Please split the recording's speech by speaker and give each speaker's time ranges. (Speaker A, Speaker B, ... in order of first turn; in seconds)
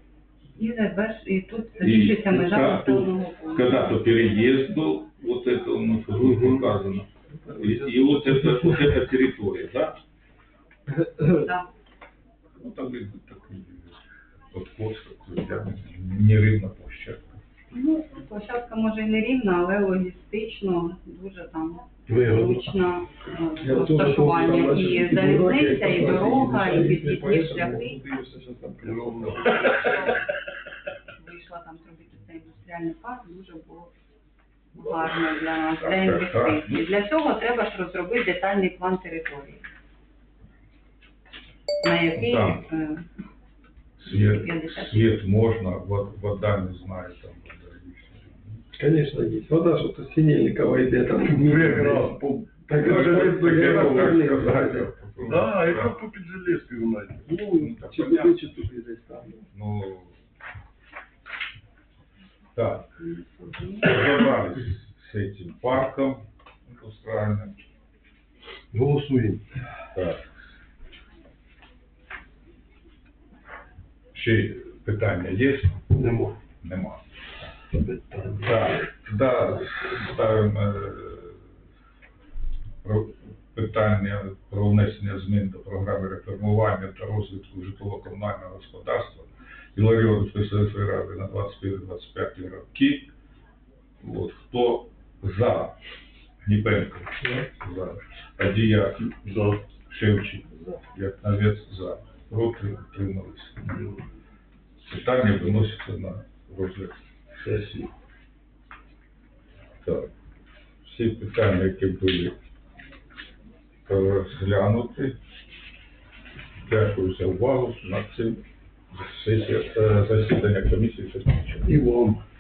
Speaker A: 0.6-4.3, 11.3-11.7, 17.7-28.0, 29.6-30.2, 31.1-33.9, 34.7-39.6, 41.8-43.1, 44.1-45.1, 63.0-64.1
Speaker B: 1.8-7.1, 7.6-10.0, 12.6-13.9, 14.5-17.4, 35.8-36.8, 42.2-42.6, 44.0-48.6, 52.8-56.0, 57.6-58.6, 59.5-60.2, 62.6-62.9, 63.8-67.5, 69.9-70.3, 74.1-75.8, 76.6-77.0, 78.4-81.4, 82.8-93.1, 94.0-95.8, 96.5-99.3, 99.9-103.9, 104.9-107.0, 109.8-110.1, 110.8-112.3, 113.9-115.2, 116.6-121.7
Speaker C: 6.2-6.7, 22.1-22.7, 28.8-30.2, 51.2-54.2, 55.2-57.3, 68.7-69.5, 75.9-76.4, 77.7-78.8, 99.2-99.6, 107.4-107.9, 121.7-122.2
Speaker D: 7.3-8.9, 10.9-11.5, 23.6-30.1, 48.8-54.9, 57.2-59.5